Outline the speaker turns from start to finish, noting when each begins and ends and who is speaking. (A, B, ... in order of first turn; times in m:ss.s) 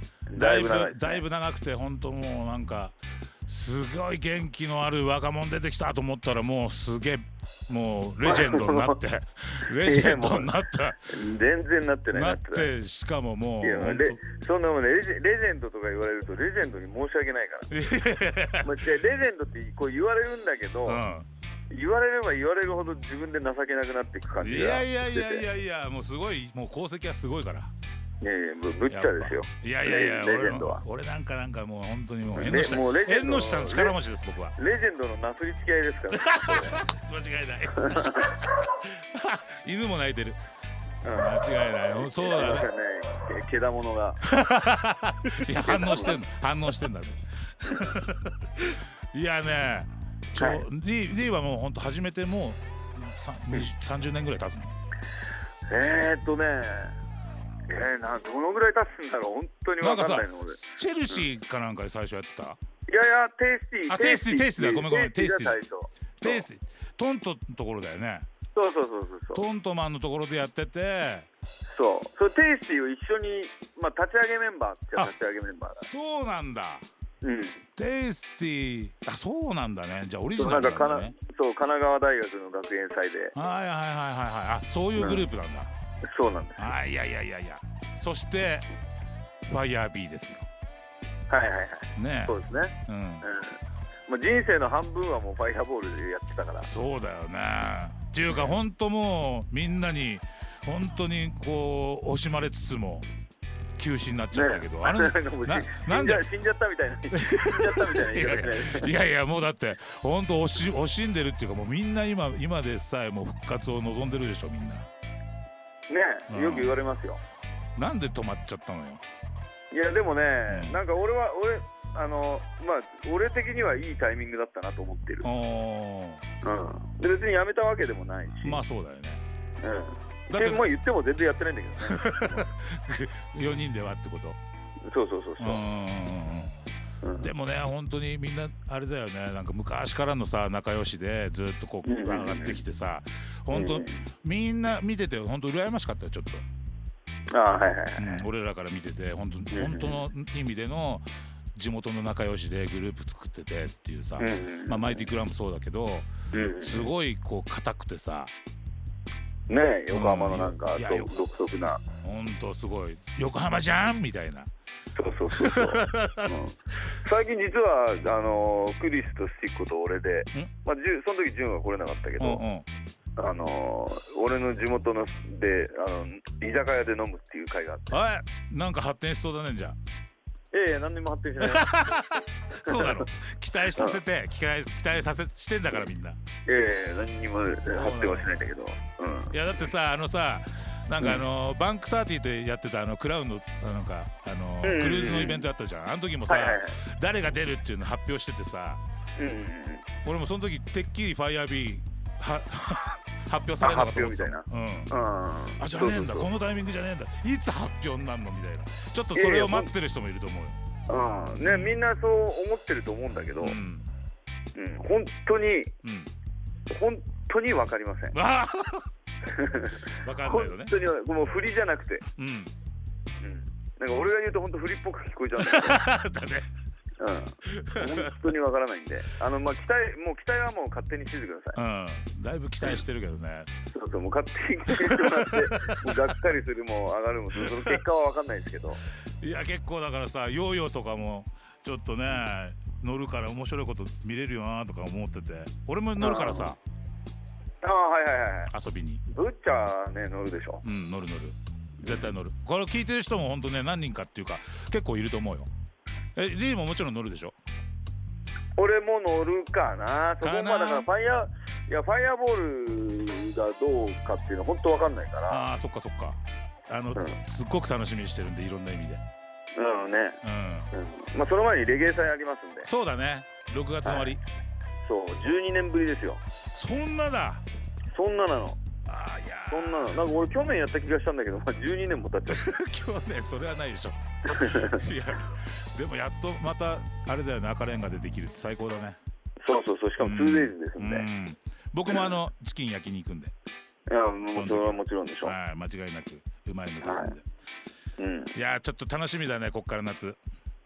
0:00.3-0:01.2 A
0:00.4-0:11.1 B
0:08.2-0:09.0 A
0:09.7-0:10.5 A
0:11.1-0:12.7 A
0:12.1-0:14.2 B
0:13.6-0:17.7 A
0:17.7-0:18.7 B
0:18.6-0:21.0 A
0:20.8-0:21.3 B
0:21.7-0:25.4 A
0:24.4-0:27.7 B
0:28.2-0:30.8 A
0:28.9-0:34.5 B
0:32.4-0:34.0 A
0:34.6-0:36.8 A
0:36.1-0:40.4 B
0:37.8-0:38.3 A
0:41.0-0:41.4 A
0:41.1-0:42.7 B
0:41.9-0:44.2 A
0:44.2-0:54.7 B
0:45.6-0:46.2 A
0:55.7-0:56.9 A
0:57.7-1:01.2 A
0:59.8-1:02.6 B
1:02.9-1:06.4 A
1:03.9-1:05.6 B
1:06.2-1:08.3 B
1:08.5-1:09.4 A
1:09.3-1:11.3 B
1:11.7-1:15.9 A
1:15.8-1:16.8 B
1:17.2-1:17.6 A
1:17.8-1:21.1 B
1:20.4-1:23.3 A
1:23.3-1:25.7 B
1:25.0-1:25.3 A
1:26.1-1:26.7 A
1:26.6-1:28.6 B
1:29.5-1:30.5 B
1:31.3-1:36.7 A
1:32.0-1:32.4 B
1:32.9-1:33.2 B
1:36.6-1:43.0 B
1:38.3-1:38.5 A
1:43.8-1:46.2 B
1:44.3-1:48.9 A
1:47.1-1:54.9 B
1:55.9-1:57.2 A
1:56.3-1:56.7 B
1:57.8-1:59.0 B
1:59.7-2:05.3 A
2:00.5-2:00.8 B
2:05.2-2:06.2 B
2:06.4-2:08.6 A
2:08.4-2:09.2 B
2:09.6-2:12.5 A
2:10.3-2:10.6 B
2:11.8-2:14.4 B
2:14.8-2:15.6 A
2:15.4-2:16.5 B
2:17.0-2:17.3 A
2:17.2-2:26.4 B
2:21.8-2:22.6 A
2:23.5-2:24.0 A
2:27.3-2:28.2 A
2:28.0-2:38.3 B
2:29.5-2:30.0 A
2:34.2-2:35.1 A
2:36.3-2:36.9 A
2:39.5-2:41.8 A
2:39.9-2:41.1 B
2:42.0-2:44.5 B
2:44.9-2:52.4 A
2:45.3-2:46.3 B
2:52.2-2:52.7 B
2:53.2-2:58.0 A
2:57.9-2:59.8 B
3:00.5-3:01.7 A
3:01.4-3:06.2 B
3:02.6-3:03.0 A
3:03.8-3:04.0 A
3:06.5-3:09.4 A
3:07.7-3:08.4 B
3:09.3-3:18.8 B
3:11.0-3:11.2 A
3:14.6-3:15.5 A
3:16.3-3:16.7 A
3:19.2-3:19.9 A
3:20.0-3:24.9 B
3:23.6-3:26.3 A
3:25.5-3:30.6 B
3:29.1-3:29.7 A
3:30.9-3:33.6 A
3:31.3-3:31.8 B
3:33.4-3:33.9 B
3:34.5-3:35.7 A
3:35.8-3:36.1 B
3:36.7-3:38.2 A
3:38.1-3:38.9 B
3:39.2-3:42.0 A
3:40.0-3:40.7 B
3:42.2-3:42.5 B
3:43.2-3:45.9 A
3:45.4-3:46.5 B
3:47.0-3:51.6 A
3:47.4-3:48.3 B
3:51.5-3:53.5 B
3:53.7-3:58.8 A
3:54.7-3:56.1 B
3:57.4-3:57.8 B
3:59.2-4:06.6 B
4:06.0-4:06.5 A
4:07.6-4:08.5 A
4:08.5-4:09.0 B
4:09.1-4:10.6 A
4:10.6-4:15.5 B
4:11.8-4:12.1 A
4:16.1-4:17.4 B
4:18.6-4:25.4 A
4:20.2-4:20.9 B
4:25.3-4:29.0 B
4:29.6-4:30.2 A
4:30.2-4:30.7 B
4:30.7-4:32.7 A
4:32.6-4:34.2 B
4:33.8-4:34.1 A
4:34.8-4:36.2 A
4:36.5-4:37.4 B
4:37.9-4:38.6 A
4:38.8-4:40.0 B
4:39.5-4:42.4 A
4:42.3-4:49.0 B
4:44.3-4:44.8 A
4:49.4-4:51.1 A
4:50.0-4:53.3 B
4:51.9-4:52.1 A
4:53.9-4:55.3 A
4:54.3-4:57.2 B
4:56.8-4:57.1 A
4:58.0-4:58.3 A
4:58.3-5:00.2 B